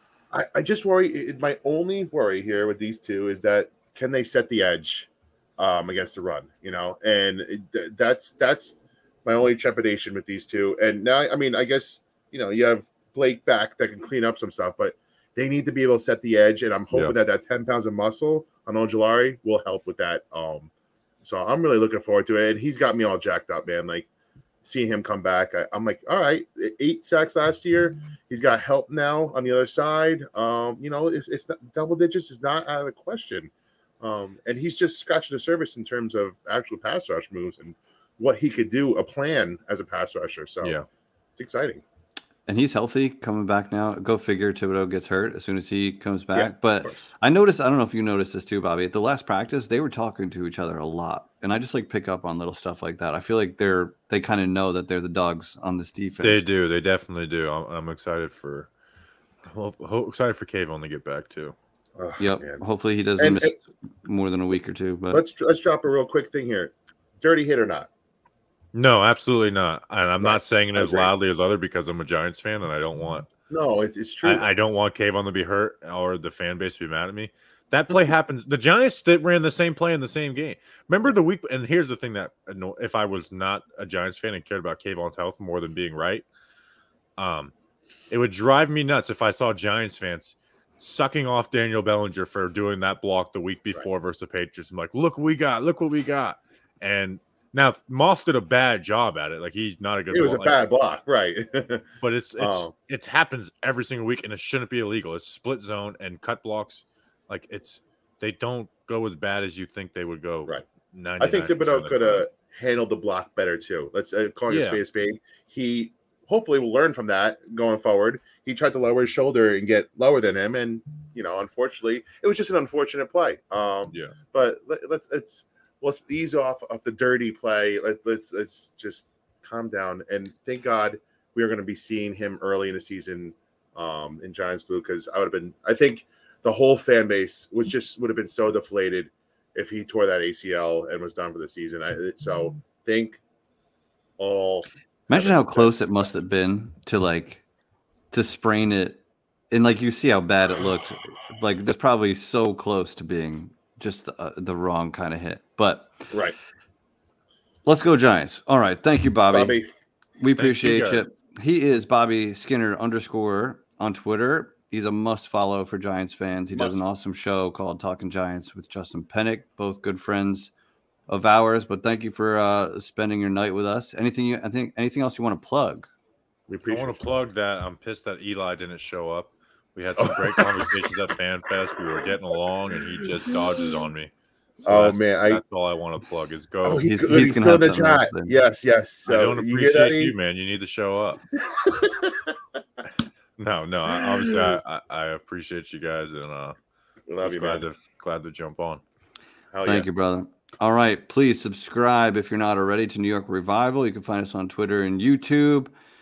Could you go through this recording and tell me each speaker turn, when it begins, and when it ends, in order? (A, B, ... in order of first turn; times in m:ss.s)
0:00.3-0:20.7 A
0:21.2-0:24.1 A
0:24.6-0:40.8 A
0:41.4-0:41.8 A
0:42.5-0:56.4 B
0:46.3-0:47.0 A
0:56.2-0:58.7 C
0:59.4-1:01.5 C
1:02.0-1:02.6 A
1:02.2-1:05.2 B
1:03.2-1:03.6 A
1:05.1-1:07.9 A
1:08.7-1:13.3 C
1:10.2-1:11.1 A
1:13.5-1:14.5 A
1:14.2-1:26.2 C
1:27.2-1:27.5 C
1:28.1-1:40.5 C
1:40.1-1:41.8 A
1:42.0-1:52.2 C
1:42.4-1:42.7 A
1:51.2-2:23.2 A
1:54.5-1:54.8 C
2:24.2-2:25.8 A
2:25.1-2:27.4 B
2:28.1-2:36.1 B
2:36.1-2:36.4 A
2:37.6-2:39.6 B
2:39.3-2:39.7 A
2:40.2-2:50.5 B
2:40.4-2:41.0 C
2:46.5-2:46.8 A
2:51.1-2:55.9 B
2:56.5-2:57.1 A
2:56.7-3:04.1 C
3:00.0-3:00.8 A
3:03.0-3:03.8 A
3:04.6-3:05.4 A
3:04.6-3:06.8 C
3:06.6-3:10.1 A
3:06.8-3:08.4 B
3:09.1-3:11.2 C
3:11.3-3:12.3 A
3:13.4-3:16.6 C
3:13.9-3:14.6 A
3:17.1-3:17.6 A
3:17.2-3:18.8 C
3:19.5-3:19.9 A
3:19.6-3:25.7 B